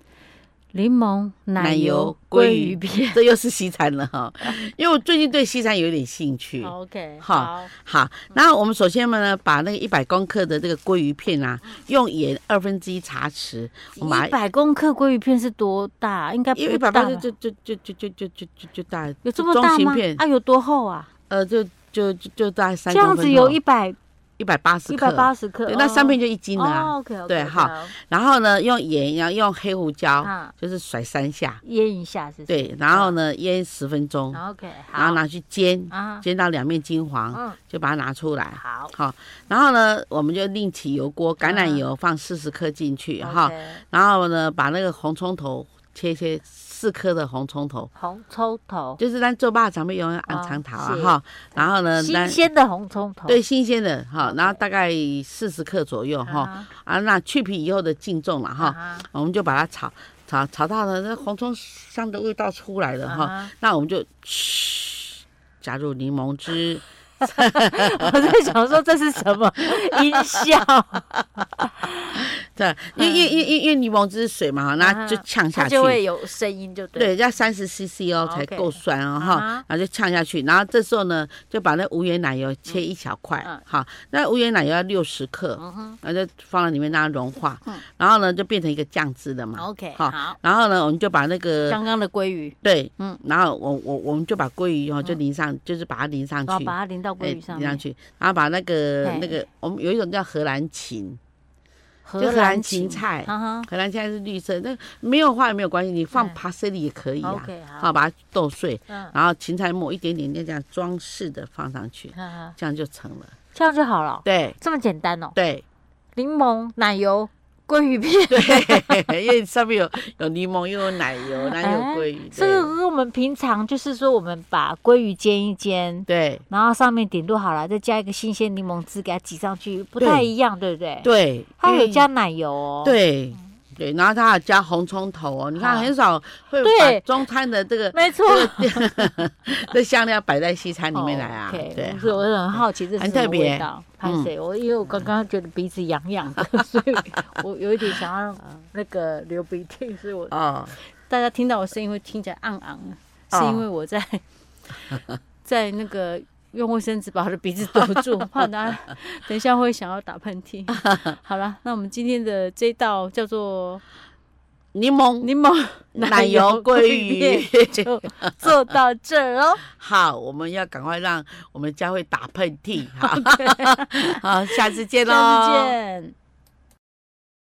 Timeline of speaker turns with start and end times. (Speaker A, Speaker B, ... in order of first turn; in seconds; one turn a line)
Speaker A: 0.7-3.2
Speaker B: 1.6-14.3
Speaker A: 6.6-7.7
Speaker A: 14.0-17.3
Speaker B: 16.6-20.2
Speaker A: 19.2-21.1
Speaker B: 21.3-23.6
Speaker A: 22.9-24.0
Speaker B: 24.4-31.6
Speaker A: 24.9-27.9
Speaker A: 30.2-30.5
Speaker A: 31.6-33.2
Speaker B: 32.5-34.4
Speaker A: 34.3-35.2
Speaker B: 35.0-47.9
Speaker A: 35.9-36.3
Speaker A: 37.3-37.6
Speaker A: 38.5-38.9
Speaker A: 41.4-41.8
Speaker A: 43.2-43.8
Speaker A: 48.0-49.0
Speaker B: 49.0-52.4
Speaker A: 50.3-53.4
Speaker B: 53.3-68.1
Speaker A: 54.2-54.6
Speaker A: 56.2-56.7
Speaker A: 58.6-59.1
Speaker A: 63.0-63.5
Speaker A: 67.2-71.9
Speaker B: 72.1-76.0
Speaker A: 73.0-73.4
Speaker A: 74.8-77.1
Speaker B: 77.0-91.8
Speaker A: 78.2-79.7
Speaker A: 85.6-86.0
Speaker A: 89.6-90.4
Speaker A: 91.7-93.2
Speaker B: 92.6-101.2
Speaker A: 96.5-97.8
Speaker A: 99.0-99.4
Speaker A: 102.1-103.7
Speaker B: 102.2-113.3
Speaker A: 106.1-106.4
Speaker A: 107.2-107.9
Speaker A: 108.9-109.1
Speaker A: 112.1-112.6
Speaker A: 113.5-115.4
Speaker B: 114.2-114.6
Speaker B: 115.4-115.6
Speaker A: 116.2-119.1
Speaker B: 118.3-122.7
Speaker A: 120.8-131.1
Speaker B: 126.1-126.4
Speaker B: 130.0-130.3
Speaker B: 131.0-132.1
Speaker A: 131.6-133.0
Speaker B: 132.8-144.3
Speaker A: 135.6-135.9
Speaker A: 136.6-137.2
Speaker A: 137.9-139.1
Speaker A: 140.9-154.2
Speaker B: 150.3-150.8
Speaker B: 153.3-153.7
Speaker A: 154.8-163.8
Speaker B: 157.8-158.3
Speaker B: 160.8-161.1
Speaker B: 164.8-165.3
Speaker A: 165.2-169.6
Speaker B: 165.9-168.5
Speaker B: 169.7-175.8
Speaker A: 172.9-176.2